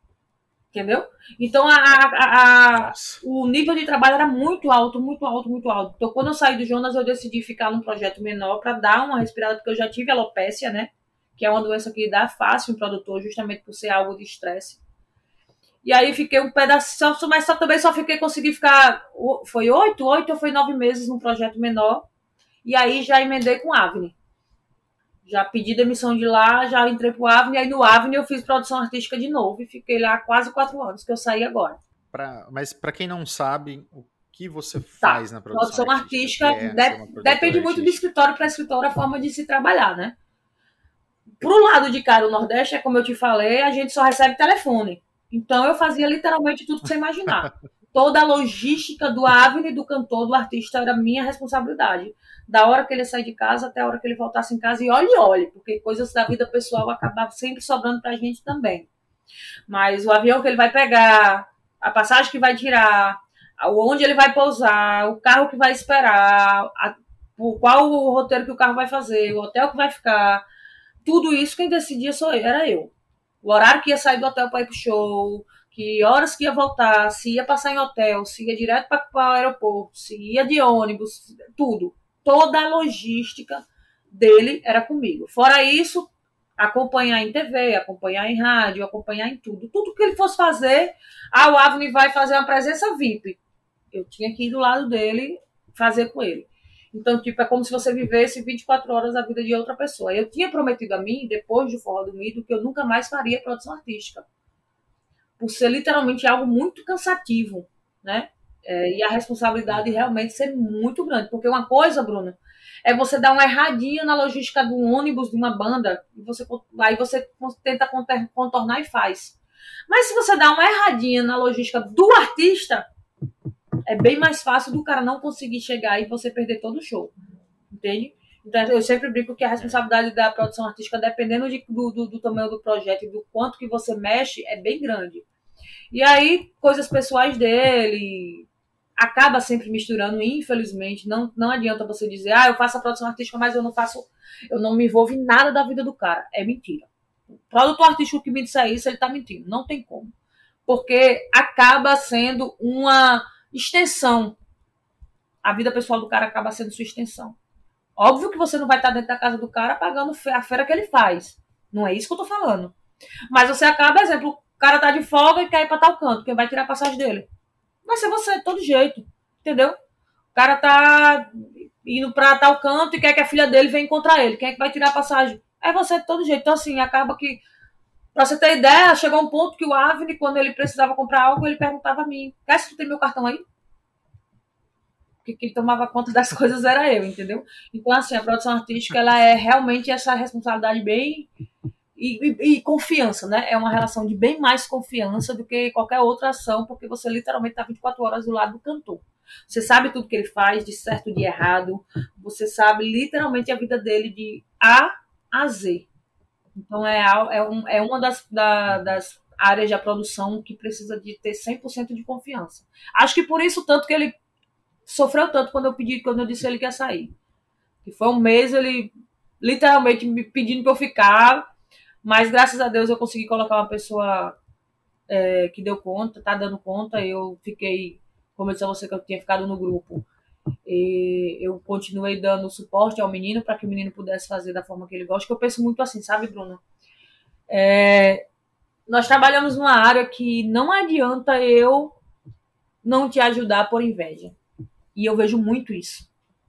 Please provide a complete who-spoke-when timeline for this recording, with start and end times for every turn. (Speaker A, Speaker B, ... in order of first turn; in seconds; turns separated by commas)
Speaker A: 0.7-14.8, Speaker B: 2.7-3.2, Speaker A: 15.8-22.1, Speaker A: 22.6-24.1, Speaker A: 25.2-31.8, Speaker B: 32.1-38.0, Speaker A: 35.0-40.1, Speaker A: 41.4-58.9, Speaker A: 59.7-70.4, Speaker A: 71.0-93.4, Speaker A: 93.9-104.2, Speaker A: 105.4-119.4, Speaker B: 109.7-110.1, Speaker A: 119.9-122.9, Speaker A: 123.9-127.1, Speaker A: 127.7-135.3, Speaker B: 129.6-129.8, Speaker A: 135.9-138.5, Speaker A: 139.0-146.9, Speaker A: 147.5-150.1, Speaker A: 150.7-154.4, Speaker A: 155.4-157.4, Speaker A: 158.0-162.7, Speaker A: 163.3-167.3, Speaker A: 167.9-169.8, Speaker A: 170.3-177.4, Speaker A: 178.1-183.4, Speaker A: 185.2-191.3, Speaker A: 192.0-205.9, Speaker A: 206.6-214.1, Speaker B: 208.7-209.0, Speaker A: 214.9-217.1, Speaker A: 217.8-221.5, Speaker A: 222.0-224.4, Speaker A: 225.1-230.1, Speaker A: 230.7-236.6, Speaker A: 237.5-238.2, Speaker A: 238.9-242.0, Speaker A: 242.8-244.3, Speaker A: 244.9-246.1